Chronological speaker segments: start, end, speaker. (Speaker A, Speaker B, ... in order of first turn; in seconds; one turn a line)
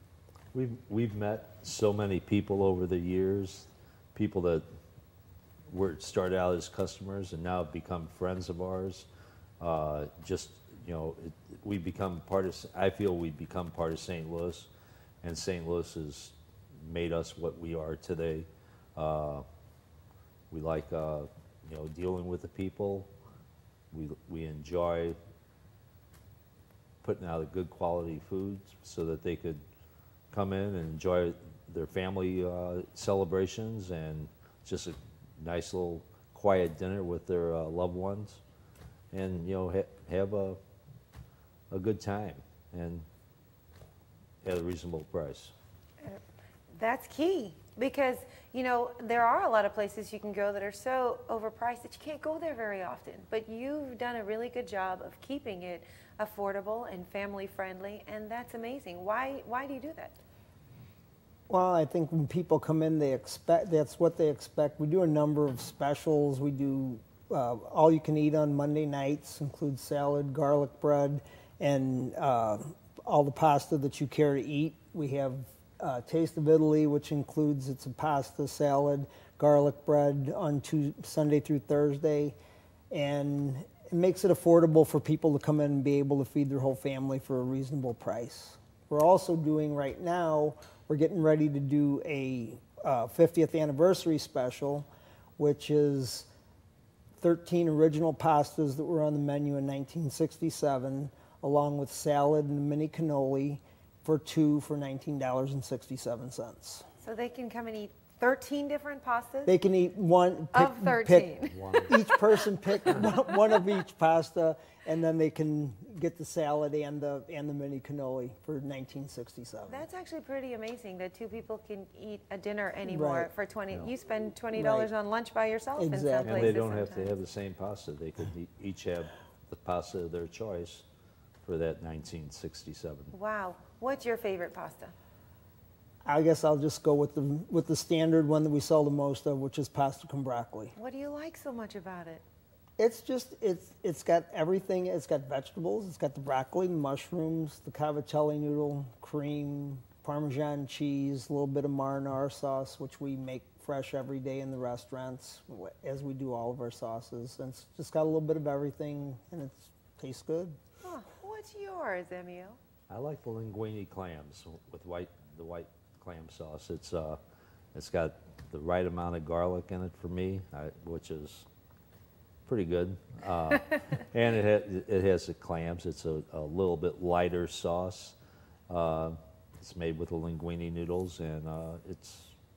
Speaker A: 0.5-4.6
Speaker A: 5.7-9.1
Speaker A: 9.6-14.7
Speaker A: 15.2-19.4
Speaker A: 20.5-23.1
Speaker A: 23.9-25.2
Speaker A: 27.0-29.6
Speaker A: 30.3-38.4
Speaker A: 39.1-40.6
Speaker A: 41.7-43.0
Speaker A: 44.4-45.5
Speaker B: 46.7-60.1
Speaker C: 61.5-82.3
Speaker C: 82.9-94.9
Speaker C: 95.4-96.3
Speaker C: 97.2-106.8
Speaker B: 107.0-109.5
Speaker C: 109.5-111.3
Speaker B: 110.5-112.0
Speaker A: 111.5-112.0
Speaker C: 111.9-119.9
Speaker B: 112.8-113.1
Speaker B: 119.7-127.2
Speaker C: 122.9-123.3
Speaker C: 124.5-124.9
Speaker C: 125.8-126.5
Speaker A: 126.2-130.8
Speaker A: 131.4-133.1
Speaker B: 133.1-134.9
Speaker C: 136.0-140.8
Speaker B: 140.8-142.2
Speaker C: 142.8-160.6
Speaker B: 160.8-162.6
Speaker A: 162.9-167.2
Speaker A: 167.7-171.5
Speaker A: 172.5-178.2
Speaker A: 178.7-182.3